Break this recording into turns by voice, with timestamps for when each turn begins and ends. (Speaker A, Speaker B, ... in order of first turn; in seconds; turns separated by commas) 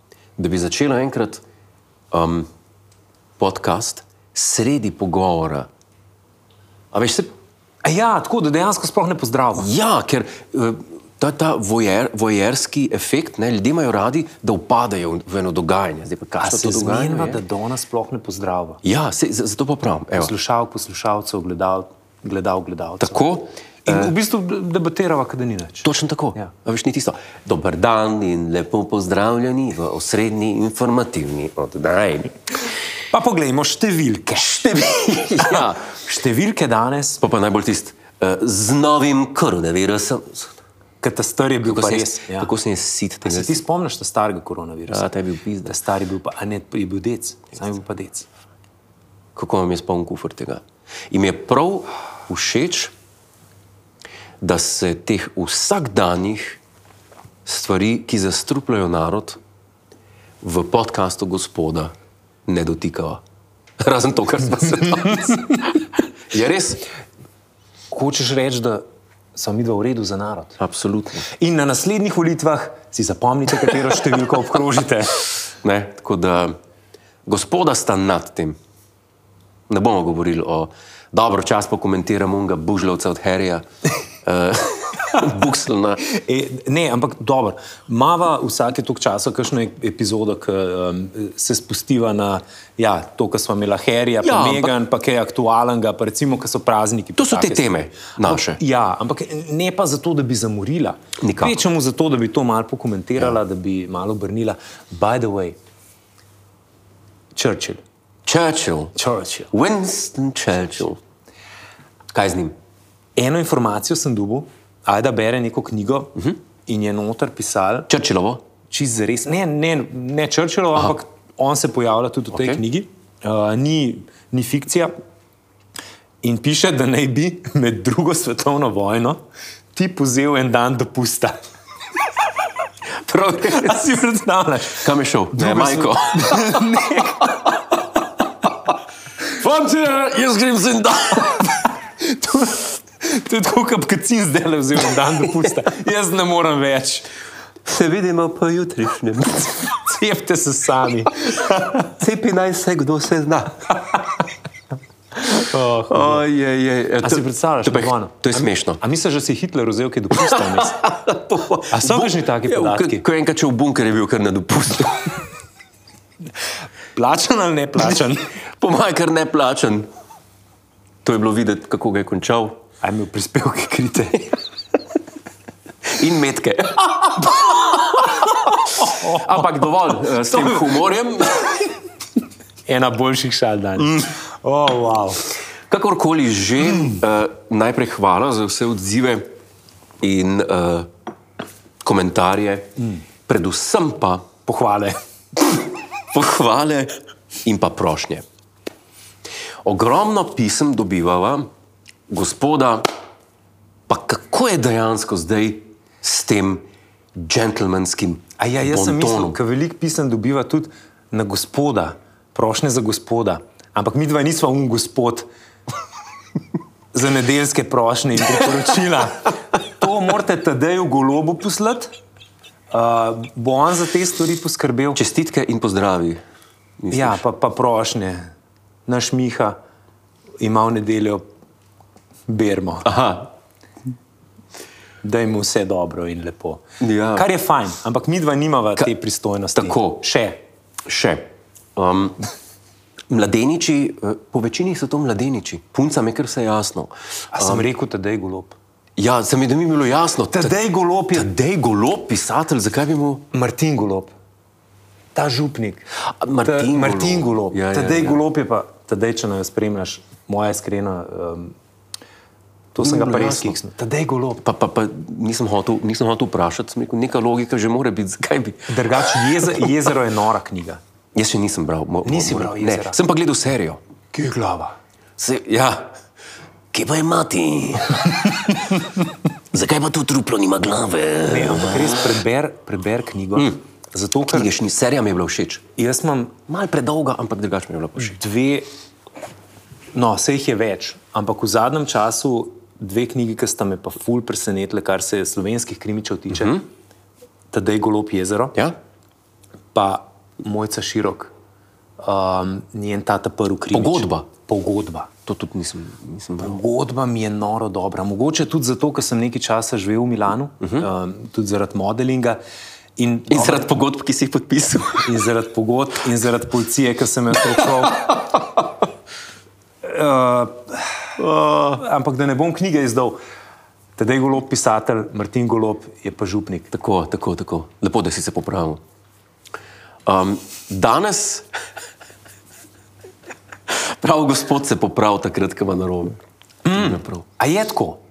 Speaker A: 0.4-1.4, Speaker A: 2.1-2.5, Speaker A: 3.4-5.7, Speaker A: 6.9-7.3, Speaker B: 7.8-9.7, Speaker A: 9.6-17.4, Speaker B: 16.4-18.8, Speaker A: 18.8-20.3, Speaker B: 20.1-23.2, Speaker A: 23.0-24.1, Speaker B: 23.8-26.5, Speaker A: 25.8-32.4, Speaker B: 33.1-37.2, Speaker A: 34.4-36.0, Speaker A: 37.2-40.6, Speaker B: 41.0-42.5, Speaker A: 41.6-43.6, Speaker B: 43.2-45.1, Speaker A: 44.9-45.8, Speaker B: 45.6-48.3, Speaker A: 49.4-52.9, Speaker A: 54.4-56.6, Speaker A: 57.5-59.4, Speaker A: 60.4-61.9, Speaker A: 62.5-63.2, Speaker A: 63.8-65.8, Speaker A: 66.3-66.8, Speaker B: 67.9-68.8, Speaker B: 69.3-70.6, Speaker A: 70.6-71.3, Speaker B: 71.2-75.3, Speaker A: 75.6-76.5, Speaker A: 77.2-78.5, Speaker A: 79.7-83.6, Speaker A: 84.2-86.0, Speaker B: 86.0-105.5, Speaker A: 94.2-94.7, Speaker A: 97.2-98.6, Speaker A: 101.2-101.6, Speaker B: 107.3-107.8, Speaker A: 108.2-108.9, Speaker B: 109.0-109.5, Speaker A: 109.5-111.0, Speaker A: 112.1-112.5, Speaker B: 113.2-117.9, Speaker A: 117.9-118.4, Speaker B: 118.7-124.9, Speaker A: 122.3-122.6, Speaker B: 126.2-129.2, Speaker B: 129.7-131.4, Speaker A: 133.1-133.8, Speaker B: 133.3-137.4, Speaker A: 134.8-137.1, Speaker A: 139.3-141.6, Speaker B: 142.0-147.1, Speaker A: 147.6-149.8, Speaker B: 149.7-151.9, Speaker A: 151.8-154.0, Speaker B: 155.2-156.2, Speaker A: 155.9-158.8, Speaker B: 157.0-160.8, Speaker A: 160.2-165.3, Speaker B: 161.7-163.0, Speaker B: 166.9-168.3, Speaker A: 168.5-169.9, Speaker A: 171.0-172.6, Speaker B: 172.8-174.4, Speaker A: 175.9-181.8, Speaker B: 178.7-179.4, Speaker B: 182.7-185.2, Speaker A: 185.7-189.3, Speaker A: 190.0-190.9, Speaker A: 191.8-192.7, Speaker A: 193.3-194.3, Speaker B: 194.4-195.0, Speaker A: 196.1-198.2, Speaker A: 199.6-201.5, Speaker A: 202.1-202.9, Speaker A: 203.9-209.4, Speaker B: 208.4-215.3, Speaker B: 216.9-221.9, Speaker B: 222.7-225.0, Speaker A: 224.9-226.2, Speaker A: 226.8-227.2, Speaker B: 226.9-228.3, Speaker B: 228.9-229.6, Speaker B: 230.4-231.2, Speaker B: 232.3-232.9, Speaker A: 232.8-233.3, Speaker B: 235.0-236.6, Speaker A: 236.8-237.3, Speaker B: 237.1-240.4, Speaker A: 239.6-240.0, Speaker A: 240.8-242.2, Speaker A: 243.1-247.7, Speaker B: 247.3-248.6, Speaker A: 249.0-250.5, Speaker B: 250.3-251.3, Speaker A: 251.1-253.2, Speaker B: 253.3-254.1, Speaker B: 255.1-255.9, Speaker A: 256.2-258.2, Speaker B: 256.4-261.5, Speaker B: 262.7-264.4, Speaker A: 262.8-263.6, Speaker A: 264.4-269.7, Speaker B: 268.7-270.8, Speaker A: 271.1-273.8, Speaker B: 272.0-273.0, Speaker B: 274.1-274.8, Speaker A: 275.2-275.9, Speaker A: 276.7-278.8, Speaker A: 279.5-282.0, Speaker B: 281.2-284.5, Speaker A: 284.3-285.6, Speaker B: 285.8-286.4, Speaker A: 286.5-288.2, Speaker B: 288.0-288.7, Speaker B: 289.9-296.6, Speaker A: 296.3-296.6, Speaker B: 297.5-298.6, Speaker B: 299.7-301.3, Speaker B: 302.0-305.1, Speaker A: 303.7-304.2, Speaker A: 305.2-306.6, Speaker B: 306.4-312.4, Speaker A: 310.6-310.9, Speaker B: 313.0-313.8, Speaker A: 313.3-315.1, Speaker B: 315.0-318.2, Speaker A: 317.9-318.4, Speaker B: 319.8-323.2, Speaker A: 321.2-321.8, Speaker B: 324.0-326.7, Speaker A: 326.7-328.8, Speaker A: 330.1-331.5, Speaker A: 333.7-336.2, Speaker B: 336.6-338.0, Speaker A: 336.7-337.2